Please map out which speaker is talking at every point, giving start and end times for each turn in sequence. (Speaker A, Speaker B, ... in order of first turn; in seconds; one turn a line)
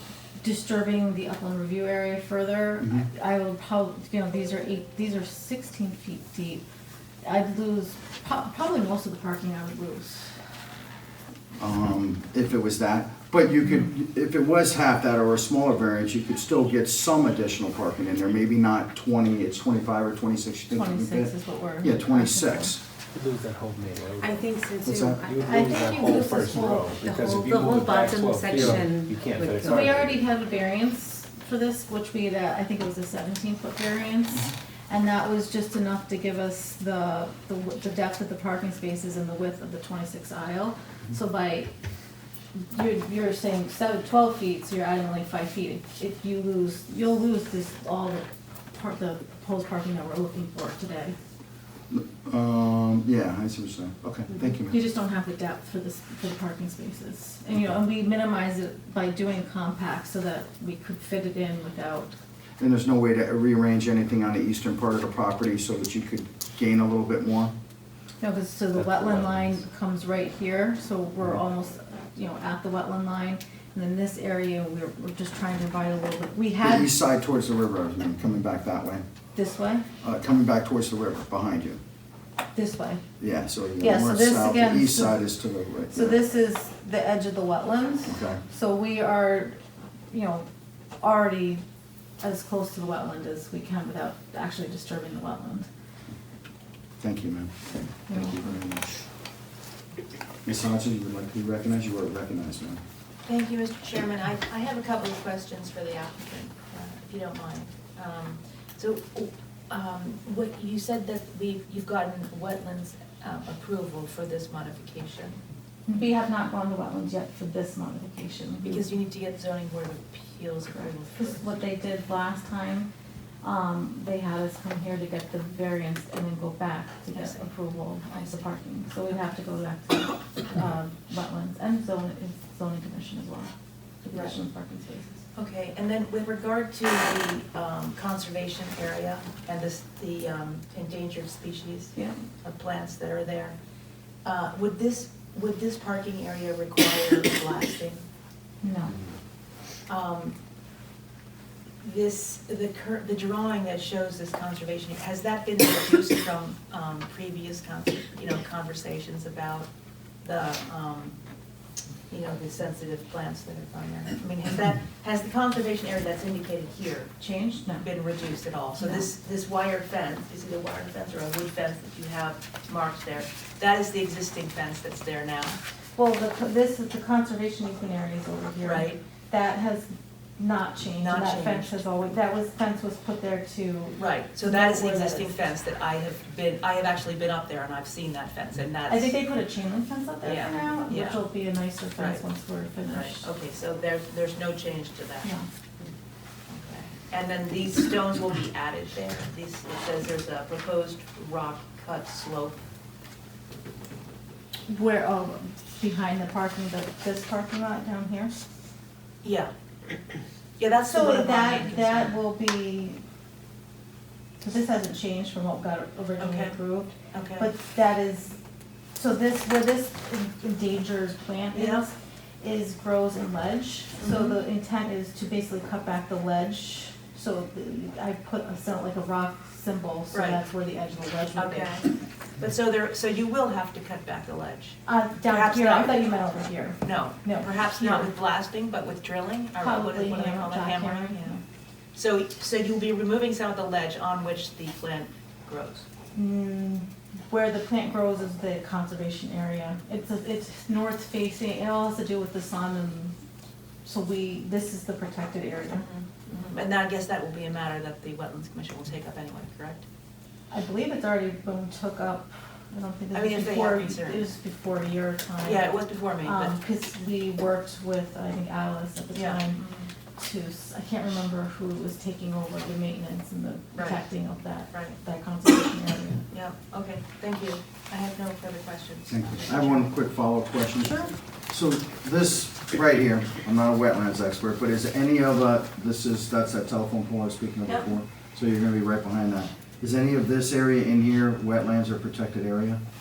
Speaker A: 0.4-6.6
Speaker A: 7.2-10.5
Speaker B: 11.6-22.8
Speaker A: 13.6-13.9
Speaker A: 20.7-22.7
Speaker C: 23.1-24.4
Speaker D: 24.2-29.8
Speaker B: 24.8-25.2
Speaker C: 25.2-30.2
Speaker A: 25.4-27.0
Speaker A: 29.6-41.7
Speaker A: 42.5-51.1
Speaker B: 51.9-54.8
Speaker A: 54.7-62.1
Speaker B: 62.6-67.5
Speaker A: 68.2-76.9
Speaker C: 68.7-69.6
Speaker B: 76.6-79.0
Speaker A: 79.3-79.8
Speaker B: 80.0-81.8
Speaker A: 82.5-83.0
Speaker B: 83.2-86.2
Speaker A: 83.8-85.2
Speaker A: 85.9-89.6
Speaker B: 88.0-88.4
Speaker A: 90.1-90.5
Speaker A: 91.0-91.6
Speaker A: 92.2-95.7
Speaker B: 97.0-98.9
Speaker A: 98.1-98.5
Speaker B: 100.4-102.8
Speaker E: 103.2-115.4
Speaker A: 115.9-118.8
Speaker E: 118.6-121.6
Speaker A: 121.1-122.9
Speaker A: 123.4-133.5
Speaker E: 127.1-127.5
Speaker E: 128.1-128.4
Speaker A: 134.0-135.2
Speaker E: 135.3-143.6
Speaker A: 141.9-142.2
Speaker E: 144.2-148.0
Speaker A: 148.6-148.9
Speaker E: 149.9-150.3
Speaker E: 151.8-159.7
Speaker E: 160.2-161.2
Speaker E: 162.1-175.6
Speaker A: 167.2-167.8
Speaker A: 168.8-169.1
Speaker A: 175.9-185.3
Speaker E: 178.6-179.0
Speaker E: 181.0-181.8
Speaker E: 184.0-189.1
Speaker A: 188.9-193.2
Speaker E: 190.2-191.2
Speaker E: 191.9-192.2
Speaker E: 192.8-195.3
Speaker E: 196.5-202.6
Speaker A: 204.7-208.3
Speaker E: 209.2-209.5
Speaker E: 210.6-212.1
Speaker A: 210.8-213.0
Speaker A: 214.4-218.4
Speaker E: 216.2-216.6
Speaker E: 217.1-217.5
Speaker A: 218.9-231.7
Speaker E: 221.5-221.8
Speaker E: 224.0-224.4
Speaker E: 230.1-230.4
Speaker E: 231.3-231.9
Speaker E: 232.4-236.1
Speaker A: 234.8-238.1
Speaker E: 236.8-241.4
Speaker A: 239.6-241.4
Speaker E: 241.9-245.8
Speaker A: 246.1-253.2
Speaker A: 253.8-255.8
Speaker E: 255.7-259.8
Speaker A: 260.5-269.6
Speaker E: 263.1-264.3
Speaker E: 265.4-266.6
Speaker E: 269.1-269.9
Speaker A: 270.1-276.2
Speaker E: 273.7-274.1
Speaker E: 274.7-275.0
Speaker E: 276.3-279.9
Speaker B: 279.1-292.8
Speaker A: 280.8-281.1
Speaker A: 287.6-287.9